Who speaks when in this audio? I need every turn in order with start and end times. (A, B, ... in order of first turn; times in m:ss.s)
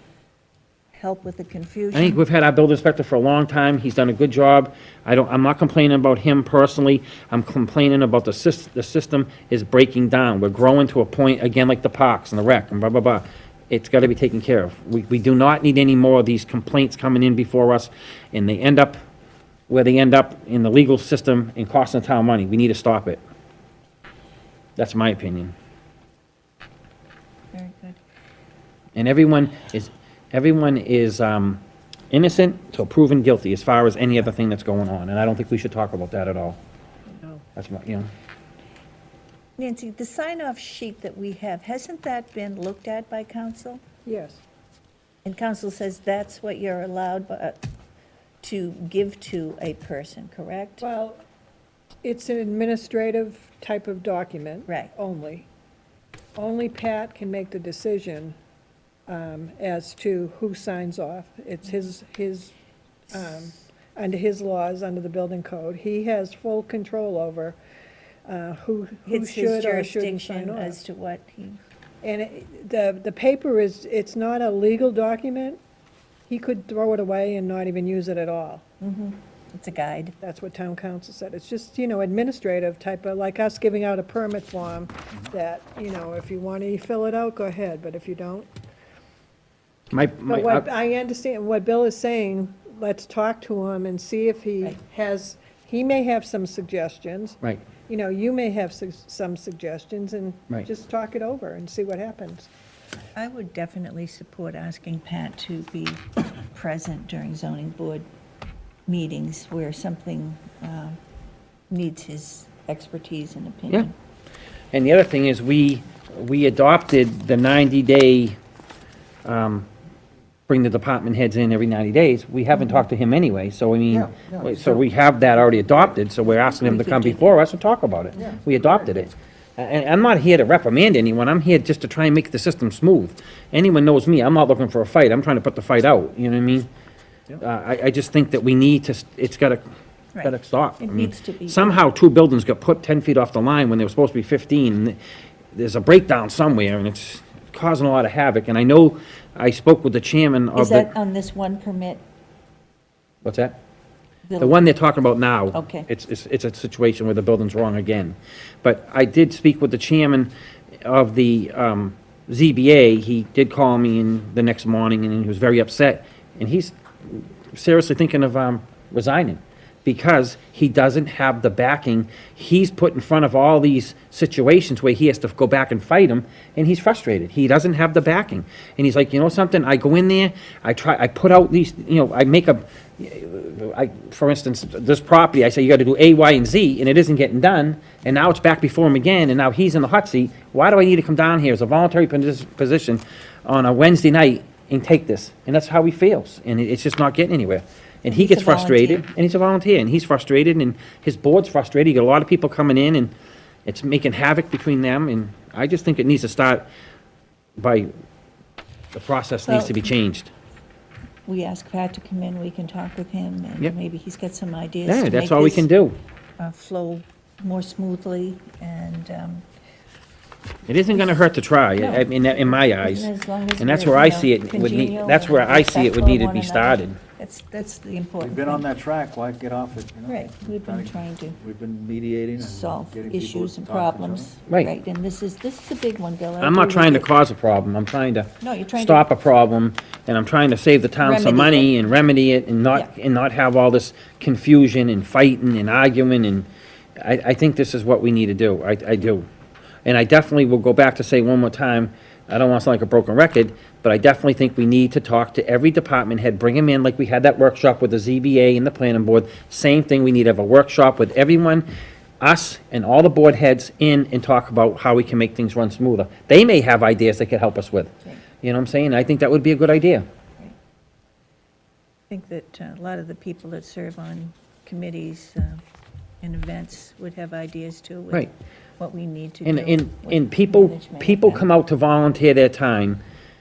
0:00.9-0:02.2 A
0:01.9-0:19.0 B
0:19.7-0:23.2 B
0:24.8-0:25.5 B
0:27.5-0:28.0 A
0:28.9-0:36.6 B
0:37.6-0:38.1 B
0:39.6-0:43.8 A
0:44.0-0:44.4 C
0:45.2-0:47.6 A
0:48.4-0:50.8 A
0:50.8-0:51.2 C
0:52.0-0:55.5 C
0:56.4-0:58.4 C
0:59.1-1:02.5 C
1:03.1-1:07.6 C
1:08.3-1:10.8 C
1:09.0-1:11.6 A
1:12.0-1:15.6 C
1:16.3-1:18.6 C
1:18.8-1:20.2 A
1:20.2-1:28.5 C
1:29.9-1:30.6 B
1:30.2-1:42.5 C
1:43.2-1:48.1 A
1:48.9-1:51.0 A
1:51.7-1:53.9 A
1:54.7-1:58.4 B
1:59.2-1:59.7 B
2:00.5-2:16.7 B
2:02.5-2:02.8 A
2:03.9-2:04.8 D
2:06.3-2:07.3 A
2:08.1-2:09.0 D
2:17.4-2:19.6 B
2:20.1-2:21.8 A
2:20.2-2:25.0 B
2:25.5-2:30.9 B
2:30.5-2:32.0 A
2:33.2-2:33.6 B
2:34.3-2:34.7 A
2:34.4-2:40.3 B
2:35.5-2:35.9 A
2:40.8-3:23.1 B
3:18.0-3:19.0 A
3:23.6-3:26.7 B
3:27.6-3:27.9 B
3:28.9-3:30.3 B
3:29.4-3:29.8 A
3:31.3-3:35.7 A
3:34.9-3:36.0 B
3:36.4-3:39.4 A
3:40.7-3:47.0 B
3:41.8-3:48.7 A
3:48.2-3:54.3 D
3:50.1-3:51.4 A
3:52.4-3:57.1 A
3:56.4-4:06.4 B
3:58.4-3:59.0 A
4:01.0-4:01.8 A
4:07.0-4:09.2 B
4:09.8-4:21.6 B
4:22.2-4:27.9 B
4:28.4-4:30.0 B
4:32.1-4:35.6 A
4:36.2-4:41.4 A
4:39.4-4:43.0 B